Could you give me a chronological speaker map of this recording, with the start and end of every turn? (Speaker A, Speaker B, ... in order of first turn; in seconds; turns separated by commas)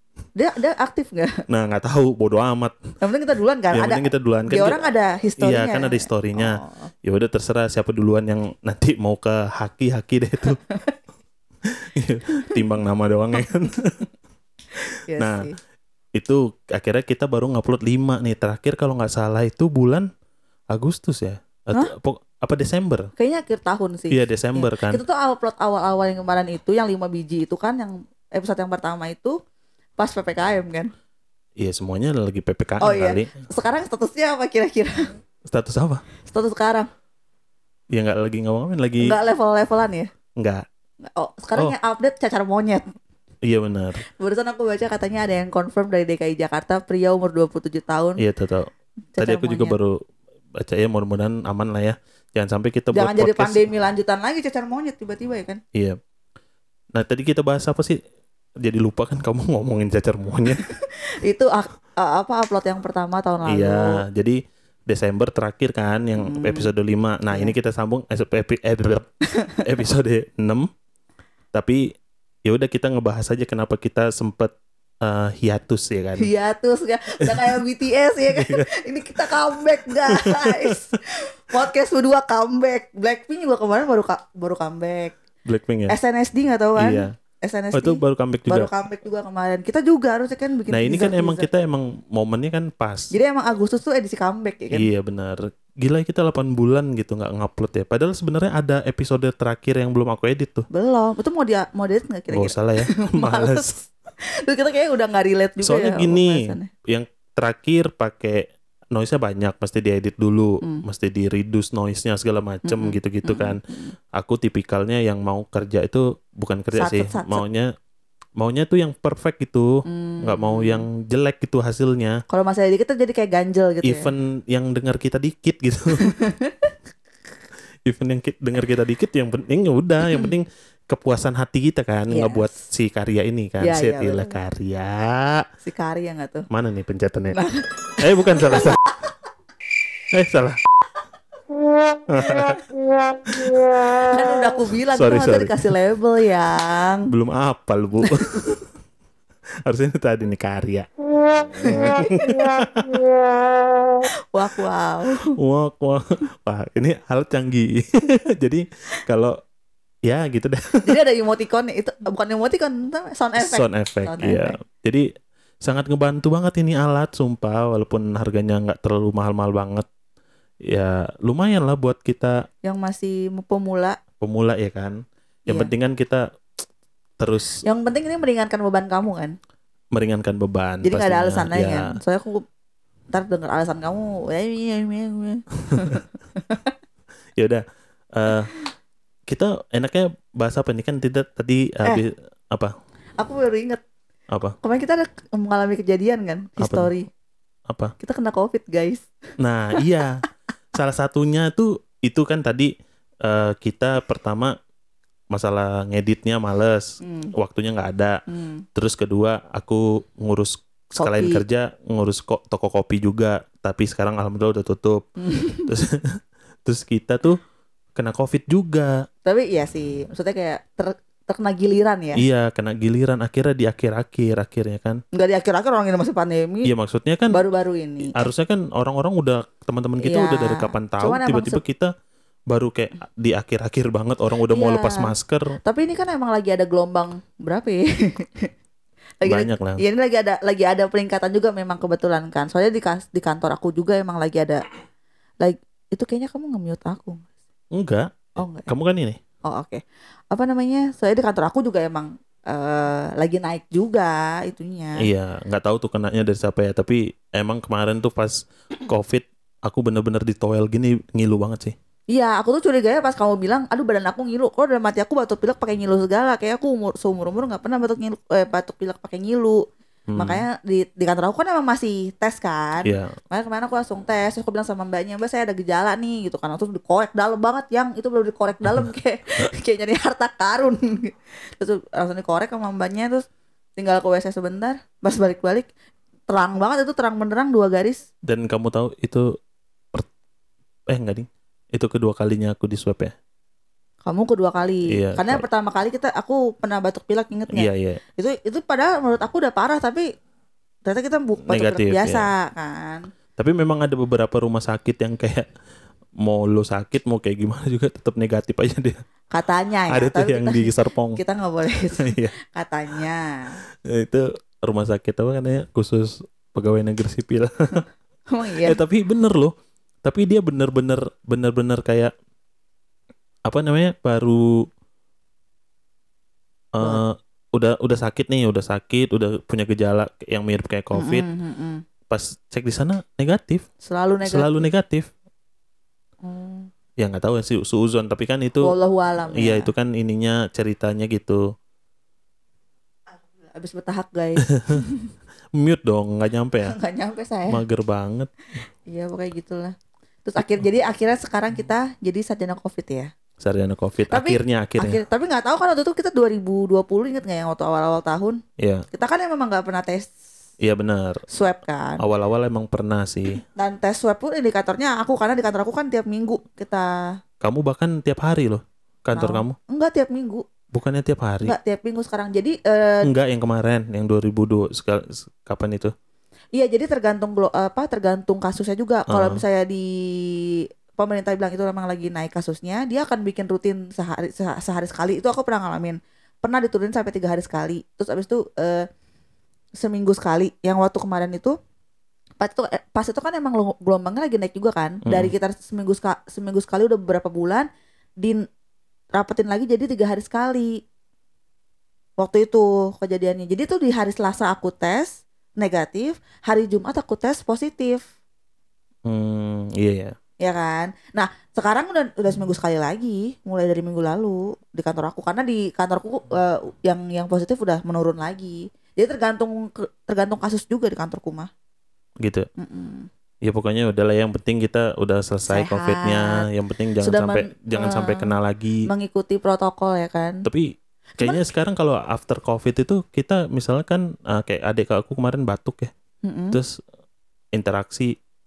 Speaker A: 0.3-1.4, Speaker B: 1.5-2.9, Speaker A: 3.0-6.9, Speaker B: 3.7-10.6, Speaker B: 11.8-14.0, Speaker A: 15.1-15.6, Speaker B: 15.2-15.5, Speaker B: 16.2-20.1, Speaker B: 20.7-23.1, Speaker A: 23.2-29.4, Speaker B: 24.1-25.0, Speaker A: 30.0-30.9, Speaker B: 31.6-33.3, Speaker A: 32.8-35.1, Speaker B: 35.5-36.0, Speaker A: 36.3-36.9, Speaker B: 37.9-39.1, Speaker A: 39.0-40.1, Speaker B: 40.4-40.6, Speaker A: 41.0-42.8, Speaker B: 43.4-44.0, Speaker A: 44.0-48.2, Speaker B: 48.2-50.0, Speaker A: 49.1-49.8, Speaker B: 50.6-53.6, Speaker A: 52.9-55.6, Speaker B: 56.9-58.0, Speaker B: 58.6-60.6, Speaker A: 60.6-64.0, Speaker B: 63.5-69.0, Speaker A: 66.2-66.7, Speaker A: 67.3-67.5, Speaker B: 69.6-70.7, Speaker B: 71.5-71.8, Speaker B: 72.4-76.3, Speaker A: 76.2-85.2, Speaker B: 77.2-77.5, Speaker B: 78.3-78.7, Speaker B: 79.9-80.7, Speaker B: 85.5-85.9, Speaker A: 85.9-91.5, Speaker B: 86.8-87.1, Speaker B: 87.7-88.7, Speaker B: 90.7-93.1, Speaker A: 93.1-94.9, Speaker B: 94.7-100.7, Speaker A: 100.7-103.9, Speaker B: 102.3-103.7, Speaker A: 104.5-106.7, Speaker B: 105.6-113.6, Speaker A: 112.6-113.9, Speaker B: 114.1-117.7, Speaker A: 116.7-117.4, Speaker B: 118.4-122.2, Speaker A: 119.8-120.9, Speaker A: 122.3-124.1, Speaker B: 123.8-126.0, Speaker A: 126.0-126.7, Speaker B: 127.8-135.4, Speaker A: 132.1-132.5, Speaker A: 133.6-134.3, Speaker A: 135.6-136.4, Speaker B: 136.5-137.4, Speaker A: 137.3-138.8, Speaker B: 138.0-138.8, Speaker B: 140.1-140.6, Speaker B: 142.1-142.6, Speaker A: 143.9-147.1, Speaker B: 144.9-145.6, Speaker B: 147.1-148.7, Speaker B: 149.7-153.1, Speaker A: 151.6-152.3, Speaker A: 154.3-155.3, Speaker B: 155.2-159.3, Speaker B: 160.1-161.0, Speaker A: 160.8-164.6, Speaker B: 163.4-165.0, Speaker B: 165.6-169.8, Speaker B: 170.7-172.4, Speaker A: 172.6-174.0, Speaker B: 174.2-175.0, Speaker B: 175.5-176.2, Speaker B: 177.2-177.6, Speaker A: 177.6-179.3, Speaker B: 179.9-181.9, Speaker A: 180.8-182.4, Speaker A: 183.1-186.7, Speaker B: 187.4-188.5, Speaker B: 189.3-192.7, Speaker A: 193.2-193.8, Speaker A: 194.6-197.1, Speaker B: 196.6-196.9, Speaker A: 198.0-199.1, Speaker B: 199.4-200.2, Speaker B: 200.7-202.7, Speaker B: 203.2-204.5, Speaker B: 205.3-208.2, Speaker A: 207.0-207.3, Speaker A: 208.3-208.6, Speaker B: 208.7-217.4, Speaker A: 211.0-211.4, Speaker A: 215.3-215.7, Speaker B: 217.9-219.0, Speaker A: 219.2-222.2, Speaker B: 222.2-225.0, Speaker A: 225.1-226.7, Speaker B: 226.6-227.4, Speaker A: 227.3-228.2, Speaker B: 228.1-231.9, Speaker A: 230.0-231.6, Speaker B: 232.5-235.6, Speaker A: 234.5-238.5, Speaker A: 239.2-244.6, Speaker B: 239.2-239.8, Speaker A: 245.4-247.2, Speaker B: 247.7-249.2, Speaker A: 248.4-248.7, Speaker A: 249.5-249.8, Speaker A: 250.3-255.0, Speaker B: 255.0-261.8, Speaker A: 262.1-269.6, Speaker B: 270.1-270.4, Speaker A: 270.2-283.2, Speaker B: 272.8-273.1, Speaker A: 283.8-285.7, Speaker A: 286.3-288.0, Speaker B: 288.3-289.2, Speaker B: 290.9-293.1, Speaker A: 294.0-300.0, Speaker B: 294.9-295.4, Speaker B: 297.5-298.0, Speaker A: 300.9-303.0, Speaker B: 301.5-302.3, Speaker B: 303.4-305.5, Speaker B: 306.2-309.0, Speaker A: 309.3-313.6, Speaker B: 309.9-311.2, Speaker B: 312.0-312.3, Speaker B: 313.9-317.8, Speaker A: 318.3-318.8, Speaker B: 318.6-319.5, Speaker B: 320.0-322.1, Speaker B: 323.5-324.5, Speaker B: 326.7-331.2, Speaker A: 330.9-331.8, Speaker B: 332.1-333.6, Speaker A: 333.8-334.7, Speaker B: 334.2-335.1, Speaker A: 336.2-336.7, Speaker B: 337.0-338.7, Speaker A: 338.6-339.7, Speaker B: 339.3-341.4, Speaker A: 343.4-345.1, Speaker B: 344.5-344.8, Speaker B: 345.6-346.7, Speaker A: 346.6-347.6, Speaker B: 347.5-348.3, Speaker A: 348.9-353.1, Speaker B: 353.4-355.0, Speaker A: 354.1-358.4, Speaker B: 358.6-358.9, Speaker A: 358.9-360.1, Speaker B: 360.6-361.2, Speaker A: 361.3-362.0, Speaker B: 362.0-363.4, Speaker A: 363.5-366.9, Speaker B: 367.4-369.6, Speaker A: 369.1-370.4, Speaker B: 370.7-371.6, Speaker A: 371.4-373.1, Speaker B: 373.0-375.9, Speaker A: 376.5-388.8, Speaker B: 379.1-379.4, Speaker A: 389.8-391.5, Speaker A: 392.4-397.7, Speaker B: 395.1-395.3, Speaker A: 399.1-400.7, Speaker A: 402.2-408.0, Speaker B: 409.1-410.1, Speaker A: 410.4-421.5, Speaker A: 422.6-423.1, Speaker B: 423.4-428.8, Speaker A: 425.5-426.4, Speaker A: 427.0-428.4, Speaker A: 428.9-430.4, Speaker B: 430.4-435.9, Speaker A: 431.2-431.4, Speaker A: 436.2-436.6, Speaker B: 437.5-438.1